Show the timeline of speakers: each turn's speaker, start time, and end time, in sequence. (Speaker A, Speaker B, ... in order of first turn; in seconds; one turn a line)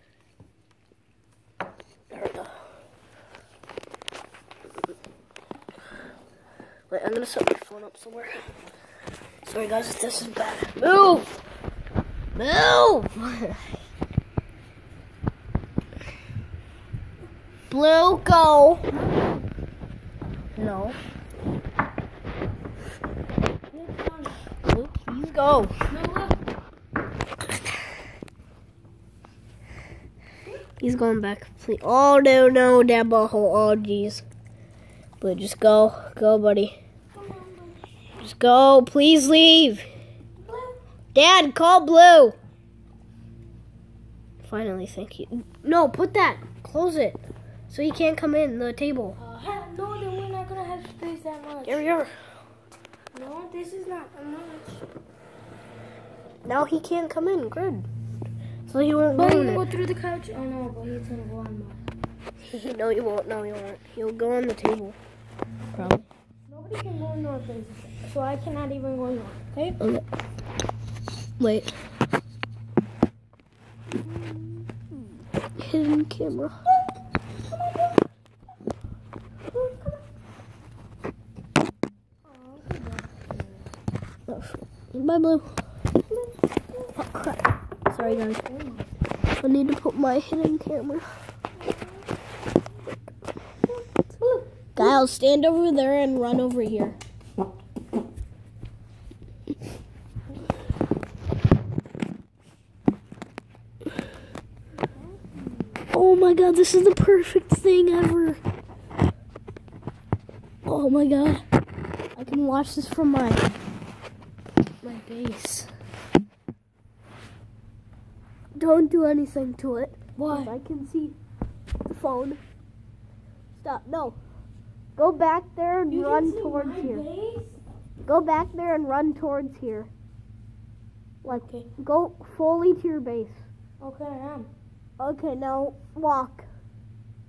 Speaker A: 2.1-2.5
Speaker A: 6.9-8.5
Speaker A: 9.4-11.3
Speaker A: 12.3-13.6
Speaker A: 17.7-18.9
Speaker B: 18.9-19.4
Speaker A: 20.6-21.0
Speaker B: 23.7-24.4
Speaker A: 24.5-25.7
Speaker B: 25.9-26.4
Speaker A: 30.8-34.2
Speaker A: 35.2-36.8
Speaker B: 37.1-37.8
Speaker A: 38.2-39.9
Speaker B: 40.4-40.8
Speaker A: 41.1-42.4
Speaker A: 44.4-49.2
Speaker B: 49.2-51.9
Speaker A: 51.7-52.1
Speaker B: 53.1-54.9
Speaker A: 56.5-57.9
Speaker A: 58.7-59.6
Speaker B: 59.1-61.8
Speaker A: 62.4-65.0
Speaker A: 65.7-66.1
Speaker B: 66.5-69.5
Speaker A: 69.6-70.0
Speaker A: 71.4-71.7
Speaker B: 74.1-74.5
Speaker A: 75.6-76.6
Speaker B: 77.4-78.0
Speaker B: 79.5-80.0
Speaker B: 82.2-83.7
Speaker A: 84.3-85.6
Speaker B: 86.0-86.9
Speaker A: 87.0-88.4
Speaker B: 88.0-88.9
Speaker A: 89.4-91.1
Speaker B: 91.6-92.1
Speaker B: 94.2-95.0
Speaker A: 94.8-97.0
Speaker B: 104.9-105.8
Speaker A: 105.9-108.4
Speaker A: 110.7-111.5
Speaker A: 112.2-113.5
Speaker A: 114.8-115.7
Speaker A: 118.5-121.2
Speaker B: 120.2-120.6
Speaker A: 121.9-122.4
Speaker A: 123.6-124.2
Speaker A: 125.0-127.0
Speaker B: 125.9-127.6
Speaker A: 128.1-129.9
Speaker A: 131.2-133.5
Speaker B: 131.2-131.7
Speaker B: 133.8-134.5
Speaker A: 135.0-136.5